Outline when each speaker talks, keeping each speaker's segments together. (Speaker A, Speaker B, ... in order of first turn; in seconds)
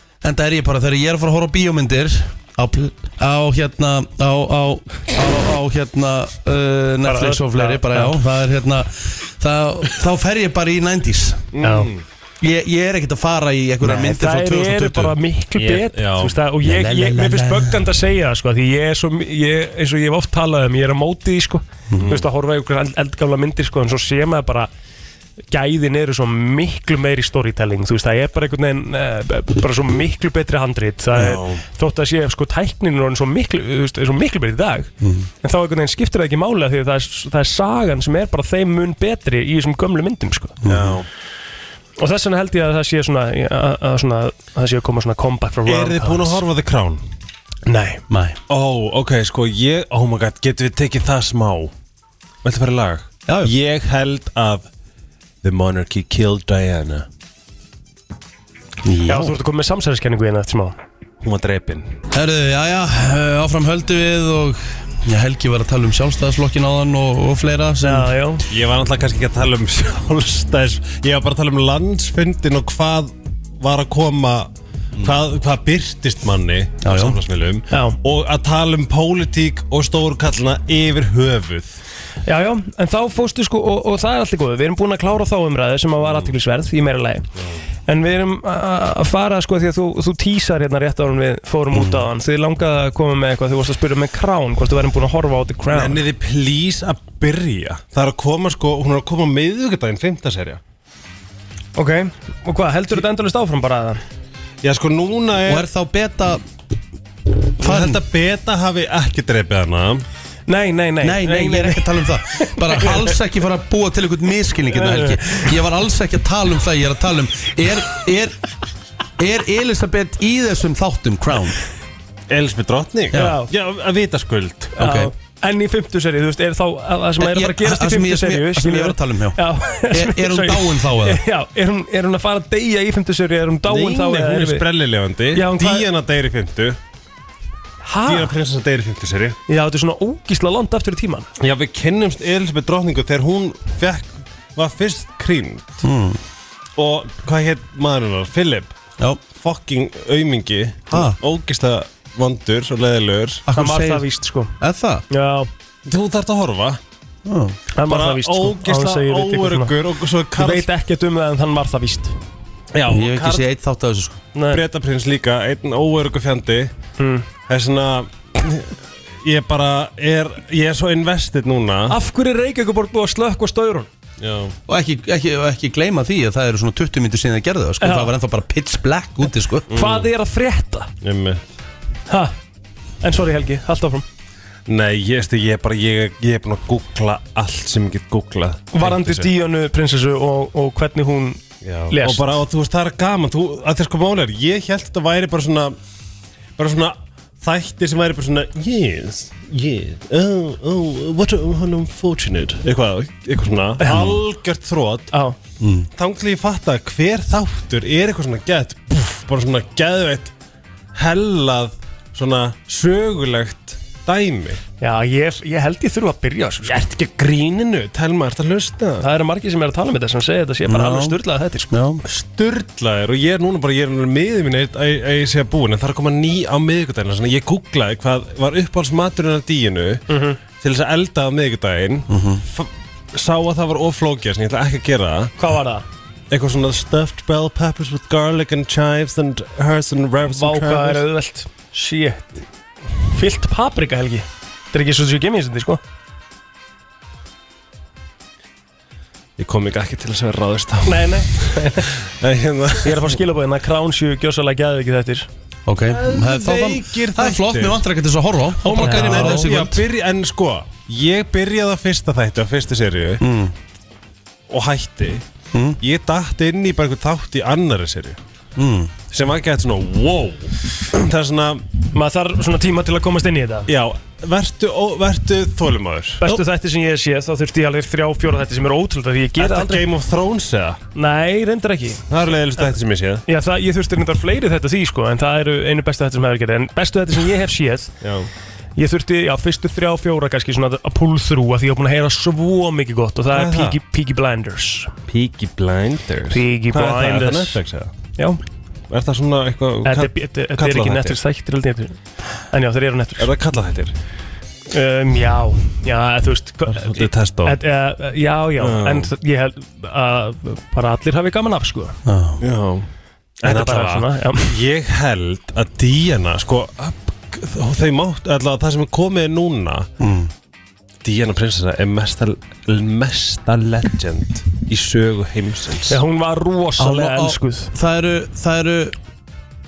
Speaker A: 0.2-11.5, 12.4-15.2, 16.6-17.9, 35.0-35.3, 40.6-41.0, 48.1-48.4, 53.3-53.5, 58.8-59.4, 62.1-68.1, 76.8-77.2, 91.7-92.1, 105.5-106.4, 107.6-108.0, 111.0-118.4, 119.2-121.6, 123.1-123.4, 124.8-125.1, 127.2-131.2, 145.8-146.2, 150.9-151.2, 153.5-154.1, 154.6-155.1, 157.3-157.6, 162.9-164.2, 174.7-179.7, 205.6-205.9, 220.7-222.0, 232.1-232.4, 255.7-259.8, 263.2-263.6, 265.5-265.8, 268.6-268.9, 312.1-312.4, 320.0-320.3, 326.8-328.9
Speaker B: 7.0-8.2, 11.6-11.9, 13.8-24.7, 25.5-34.9, 35.4-40.6, 42.0-46.4, 47.7-48.0, 59.1-60.8, 67.8-68.5, 77.7-78.0, 82.3-87.3, 87.9-96.0, 101.8-104.0, 110.5-111.9, 112.4-113.1, 114.7-115.4, 123.1-123.5, 124.8-134.7, 135.3-135.9, 137.8-138.3, 139.5-141.3, 153.5-154.5, 155.1-155.5, 157.7-159.8, 160.4-162.2, 164.3-164.6, 167.0-167.3, 171.9-173.9, 177.8-178.1, 179.7-180.9, 182.1-182.3, 183.0-184.1, 188.7-192.4, 203.8-204.2, 214.8-216.8, 219.0-221.7, 230.1-230.4, 235.4-235.8, 240.3-242.4, 243.1-245.8, 250.8-251.9, 252.8-255.3, 258.8-259.5, 271.9-273.7, 276.2-279.9, 280.9-282.1, 283.3-287.9, 288.8-294.9, 296.3-297.6, 299.9-302.0, 302.5-303.3, 304.7-312.0, 313.4-314.5, 325.9-327.7
Speaker C: 11.5-12.0, 15.6-16.4, 22.0-22.3, 31.1-31.6, 40.7-41.1, 45.6-47.0, 48.5-51.7, 52.4-54.7, 55.4-57.1, 61.2-61.9, 68.5-81.8, 95.7-100.6, 104.6-105.7, 107.6-110.0, 122.3-124.8, 133.7-136.8, 138.1-139.4, 141.4-145.8, 146.8-148.7, 149.3-153.4, 155.9-156.8, 157.9-160.7, 162.7-163.4, 164.5-166.7, 167.5-172.0, 174.2-174.5, 179.7-180.1, 181.0-181.5, 184.7-189.3, 191.6-195.8, 196.6-205.1, 206.0-210.3, 210.9-214.6, 216.6-219.0, 222.0-230.0, 230.6-235.3, 236.3-241.1, 249.4-253.2, 255.9-257.8, 258.6-263.2, 264.5-265.3, 265.8-268.2, 269.1-271.7, 273.7-276.4, 279.4-280.8, 282.1-283.2, 288.0-288.3, 293.3-293.8, 295.1-297.9, 298.9-301.2, 303.2-303.9, 306.7-307.6, 308.6-309.1, 312.4-312.9, 313.4-319.9, 321.0-326.0